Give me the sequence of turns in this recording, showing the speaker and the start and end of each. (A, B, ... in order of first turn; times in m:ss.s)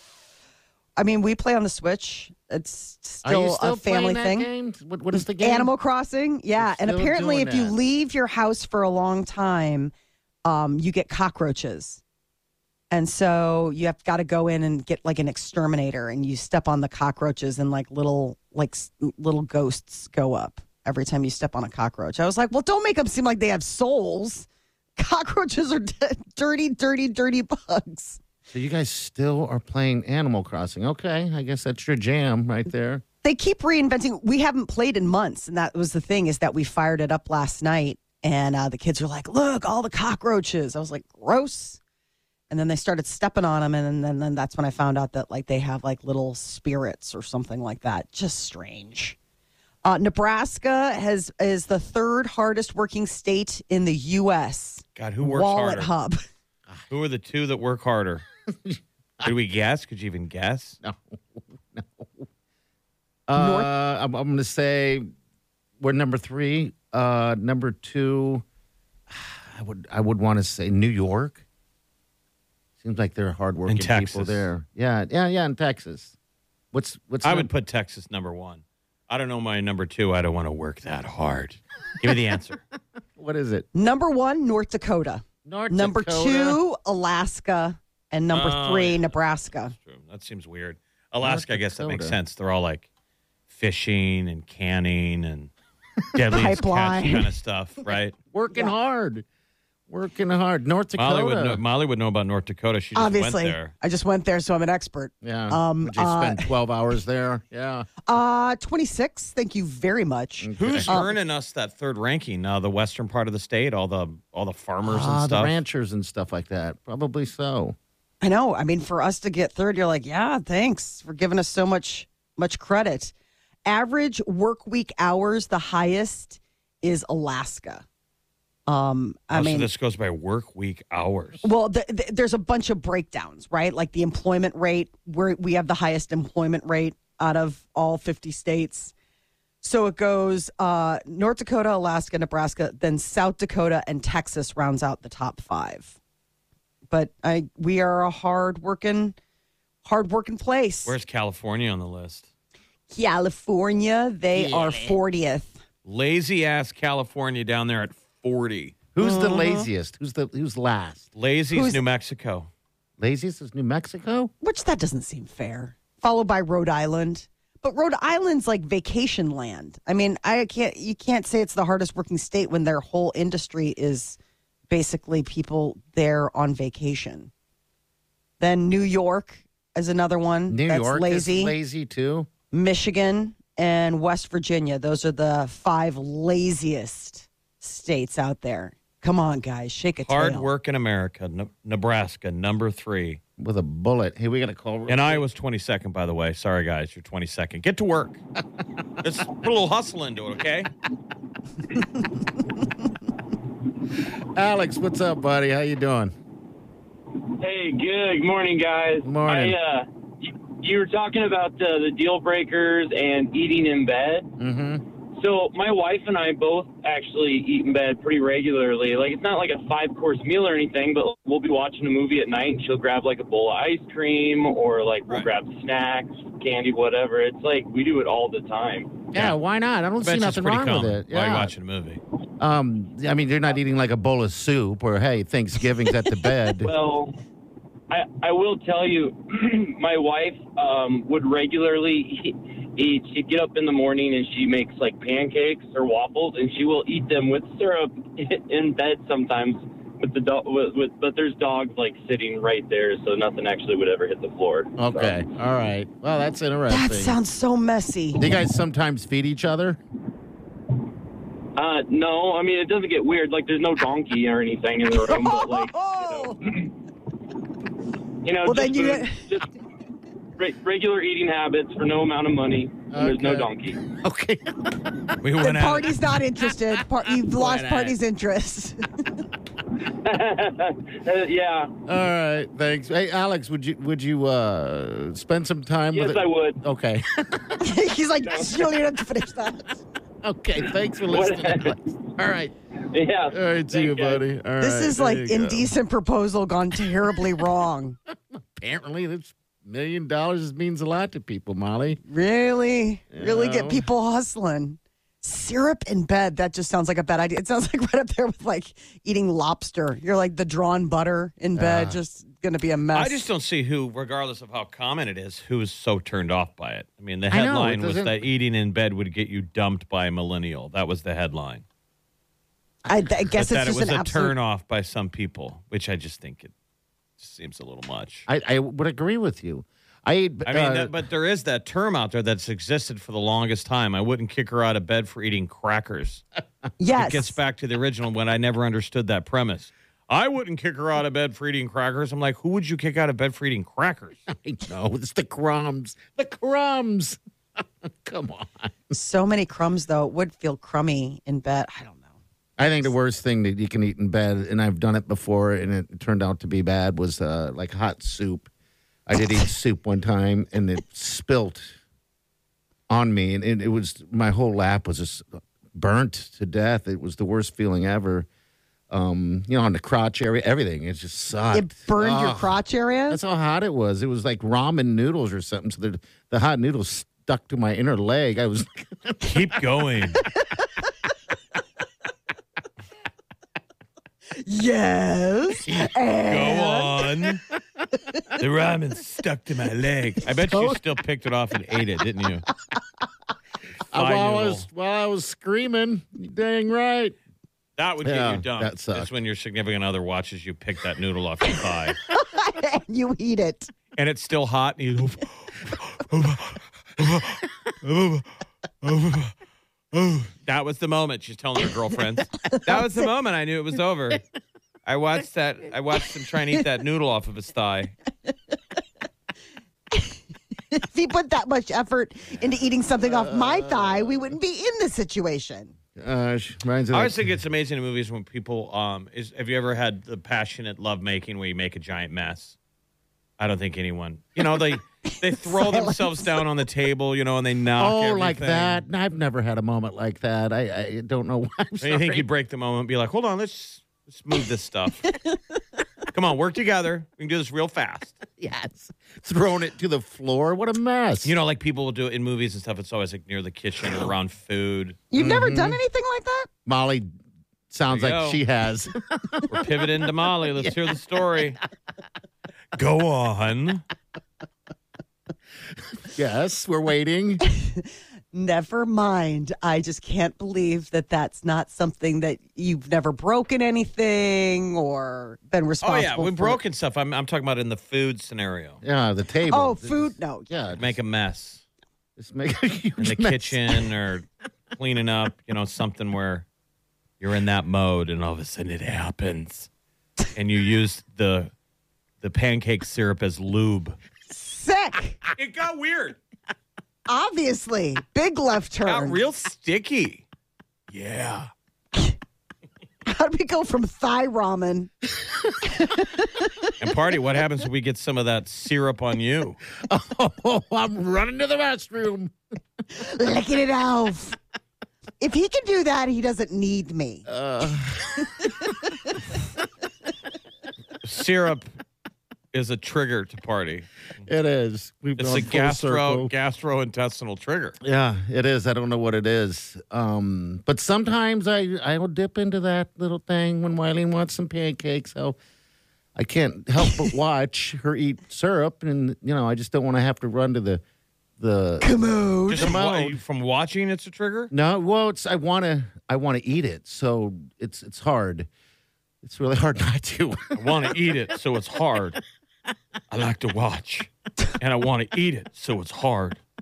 0:01.0-0:04.5 A
0:03.2-0:05.7 B
0:05.1-0:09.9 A
0:06.6-0:07.8 B
0:10.4-0:12.0 A
0:12.9-0:28.2 A
0:28.5-0:33.0 B
0:33.2-0:41.8 A
0:42.5-0:49.2 A
0:49.8-0:56.2 A
0:55.0-0:55.9 C
0:56.9-0:58.2 C
0:58.5-0:59.3 B
0:59.2-1:00.8 C
1:00.8-1:02.3 B
1:03.3-1:05.1 B
1:03.4-1:03.7 A
1:05.8-1:08.4 B
1:09.1-1:11.4 B
1:12.8-1:16.1 B
1:13.7-1:14.5 C
1:16.7-1:17.5 B
1:17.2-1:22.6 C
1:23.2-1:23.7 B
1:23.7-1:29.8 A
1:25.4-1:26.6 B
1:28.3-1:29.2 C
1:29.8-1:32.9 C
1:31.2-1:32.2 B
1:33.5-1:35.5 C
1:36.1-1:38.2 C
1:36.3-1:37.3 A
1:38.3-1:39.2 B
1:39.9-1:41.6 B
1:41.0-1:43.7 C
1:42.9-1:46.5 A
1:45.2-1:47.9 B
1:48.1-1:51.2 A
1:50.4-1:51.0 B
1:50.6-1:55.6 C
1:54.8-1:57.8 B
1:58.2-2:03.1 A
2:03.6-2:07.8 A
2:08.7-2:09.7 A
2:09.3-2:11.4 C
2:11.4-2:18.9 A
2:19.6-2:25.9 A
2:26.9-2:29.2 A
2:29.8-2:31.0 A
2:30.8-2:32.3 C
2:32.9-2:35.6 A
2:34.3-2:35.0 B
2:35.8-2:38.8 C
2:38.9-2:41.1 B
2:39.0-2:39.7 A
2:41.2-2:42.5 C
2:41.5-2:41.8 A
2:43.0-2:44.3 B
2:44.4-2:54.2 A
2:54.7-2:57.3 A
2:58.4-3:01.6 A
3:00.5-3:02.3 B
3:02.5-3:10.5 A
3:10.0-3:13.2 C
3:13.4-3:15.2 B
3:14.9-3:18.2 C
3:19.0-3:20.7 C
3:24.4-3:26.1 B
3:27.3-3:34.3 D
3:29.0-3:29.6 B
3:34.4-3:34.8 B
3:35.1-3:49.1 D
3:49.1-3:51.5 B
3:50.0-3:52.0 C
3:52.4-3:56.7 B
3:56.6-3:57.2 D
3:57.9-4:15.1 D
4:14.8-4:17.2 B
4:16.7-4:18.4 A
4:18.2-4:19.8 B
4:21.6-4:26.7 D
4:24.9-4:26.4 A
4:28.2-4:29.5 D
4:28.4-4:29.2 A
4:30.4-4:33.8 D
4:32.9-4:34.8 B
4:35.2-4:36.0 C
4:35.4-4:38.9 A
4:37.2-4:38.0 B
4:39.8-4:41.8 D
4:41.9-4:47.6 B
4:45.9-4:46.6 D
4:47.6-4:49.8 A
4:48.2-4:48.7 D
4:50.2-4:52.5 B
4:51.0-4:51.9 D
4:52.9-4:54.2 D
4:53.3-4:55.7 B
4:54.6-4:58.0 A
4:58.3-5:02.0 B
5:02.0-5:13.2 A
5:03.1-5:03.8 B
5:11.5-5:12.0 B
5:12.9-5:21.6 C
5:17.3-5:18.2 B
5:22.9-5:24.4 A
5:23.4-5:26.5 C
5:27.2-5:28.2 C
5:28.3-5:31.0 B
5:30.4-5:36.2 C
5:36.8-5:37.4 A
5:36.9-5:44.2 C
5:44.3-5:48.9 B
5:48.9-5:52.1 A
5:52.6-5:58.5 B
5:59.1-6:01.8 B
6:02.9-6:08.3 B
6:08.9-6:12.6 B
6:11.5-6:13.2 A
6:13.1-6:19.6 B
6:19.2-6:20.2 C
6:24.3-6:27.1 A
6:25.7-6:27.4 C
6:28.4-6:32.5 C
6:30.5-6:30.8 A
6:33.9-6:37.2 B
6:33.9-6:34.6 C
6:37.8-6:42.0 C
6:38.0-6:39.1 B
6:42.1-6:43.7 A
6:44.0-6:48.3 C
6:48.8-6:49.3 C
6:49.9-6:54.2 C
6:52.5-6:53.0 A
6:54.9-6:58.0 C
7:00.7-7:05.7 A
7:03.0-7:04.3 B
7:06.0-7:07.2 B
7:06.9-7:12.6 C
7:13.4-7:18.8 C
7:15.0-7:16.4 A
7:17.8-7:22.2 B
7:21.8-7:25.2 C
7:25.1-7:25.4 A
7:26.1-7:28.2 C
7:28.3-7:31.3 B
7:31.2-7:35.0 C
7:35.1-7:36.5 A
7:35.2-7:35.8 B
7:36.6-7:37.1 B
7:37.7-7:39.5 B
7:37.9-7:38.4 C
7:39.5-7:41.6 C
7:42.8-7:43.8 C
7:46.0-7:47.4 B
7:47.4-7:56.6 A
7:55.8-7:58.8 C
7:58.8-8:00.9 B
7:59.5-8:00.5 A
8:00.8-8:01.6 C
8:02.2-8:03.8 B
8:03.0-8:06.5 C
8:07.2-8:09.7 C
8:10.4-8:11.5 C
8:12.2-8:14.0 C
8:14.3-8:15.2 A
8:15.4-8:16.2 C
8:17.1-8:19.2 A
8:18.8-8:20.2 C
8:20.9-8:21.5 C
8:23.0-8:24.9 A
8:25.6-8:26.7 A
8:26.8-8:29.6 C
8:29.8-8:32.3 B
8:32.9-8:34.4 A
8:35.2-8:37.2 A
8:37.3-8:38.4 B
8:41.0-8:41.7 C
8:42.5-8:43.9 C
8:44.2-8:46.3 B
8:45.2-8:47.8 C
8:47.8-8:55.4 B
8:56.2-9:00.8 B
9:01.4-9:02.0 B
9:01.8-9:02.8 A
9:02.5-9:04.5 C
9:02.5-9:03.2 B
9:04.5-9:08.5 B
9:09.2-9:10.8 B
9:10.5-9:12.2 C
9:13.1-9:16.4 C